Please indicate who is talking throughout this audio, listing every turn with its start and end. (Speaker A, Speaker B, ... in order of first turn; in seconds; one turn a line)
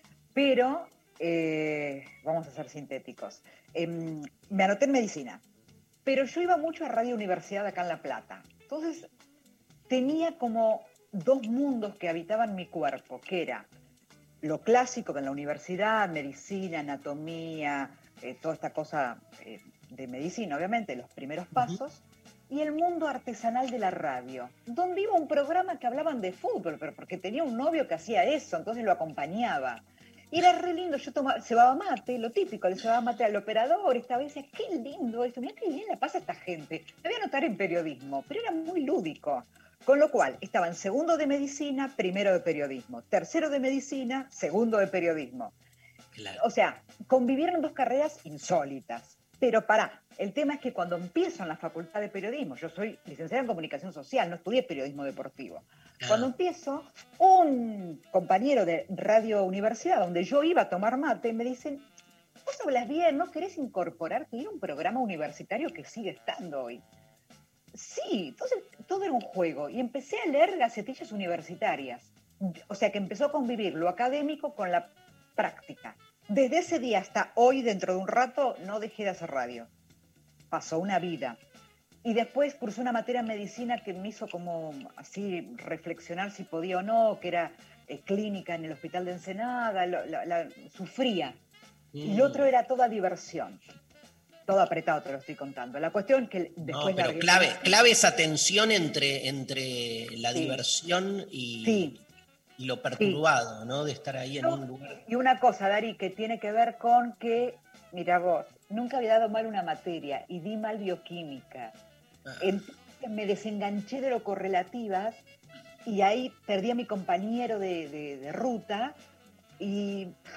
Speaker A: 0.3-5.4
Speaker A: 6.1-9.1
Speaker A: 9.9-13.7
Speaker A: 14.4-45.5
Speaker B: 46.1-46.4
Speaker A: 46.3-61.9
Speaker B: 56.0-56.3
Speaker A: 62.5-66.8
Speaker A: 67.7-79.7
Speaker A: 80.5-81.4
Speaker A: 82.0-91.4
Speaker B: 91.9-92.5
Speaker A: 92.0-93.6
Speaker A: 94.5-97.7
Speaker B: 96.7-101.9
Speaker A: 100.3-100.6
Speaker A: 101.6-102.0
Speaker B: 102.6-105.0
Speaker A: 104.4-111.8
Speaker B: 112.3-112.5
Speaker A: 112.4-115.2
Speaker A: 115.8-119.0
Speaker A: 119.6-120.2